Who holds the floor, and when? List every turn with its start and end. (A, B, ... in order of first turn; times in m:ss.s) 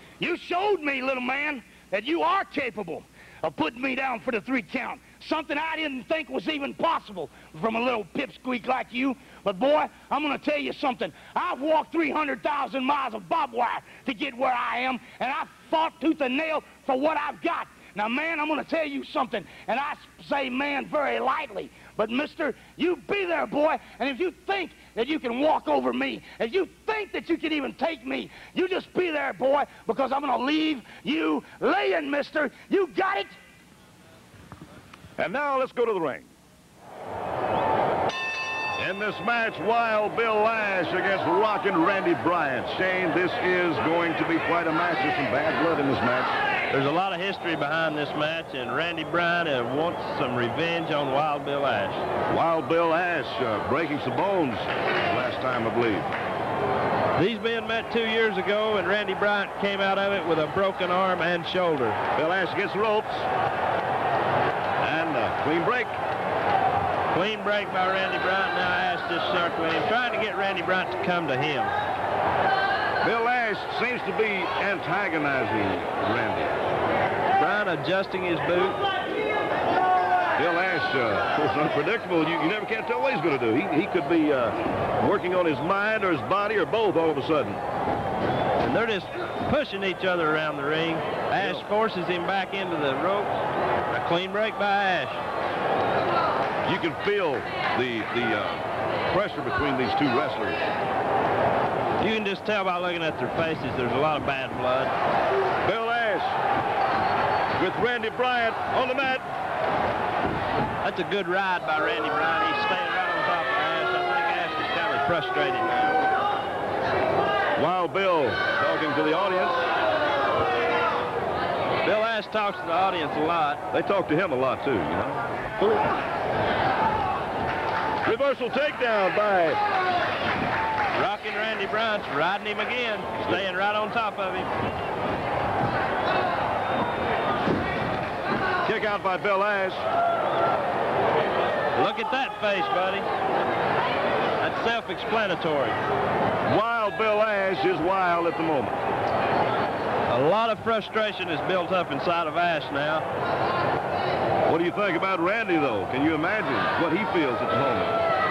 0:00.2-0:33.4 A
0:35.2-0:36.3 B
0:38.8-0:46.4 B
0:46.7-0:52.0 C
0:52.3-0:56.1 B
0:57.2-1:02.0 C
1:02.2-1:03.3 B
1:04.8-1:06.0 B
1:07.1-1:11.7 C
1:13.0-1:16.6 B
1:17.4-1:18.8 C
1:20.4-1:27.6 B
1:28.6-1:33.4 C
1:31.4-1:31.7 B
1:33.9-1:35.2 C
1:36.6-1:40.7 B
1:42.0-1:44.9 C
1:45.6-1:46.4 B
1:47.6-1:49.3 B
1:50.8-1:55.9 C
1:57.6-1:59.7 B
2:01.8-2:03.6 C
2:03.7-2:05.2 B
2:08.0-2:09.6 B
2:10.9-2:14.5 C
2:18.6-2:19.8 B
2:21.8-2:23.1 C
2:24.4-2:25.8 C
2:26.5-2:28.8 B
2:30.1-2:33.0 C
2:34.5-2:38.0 B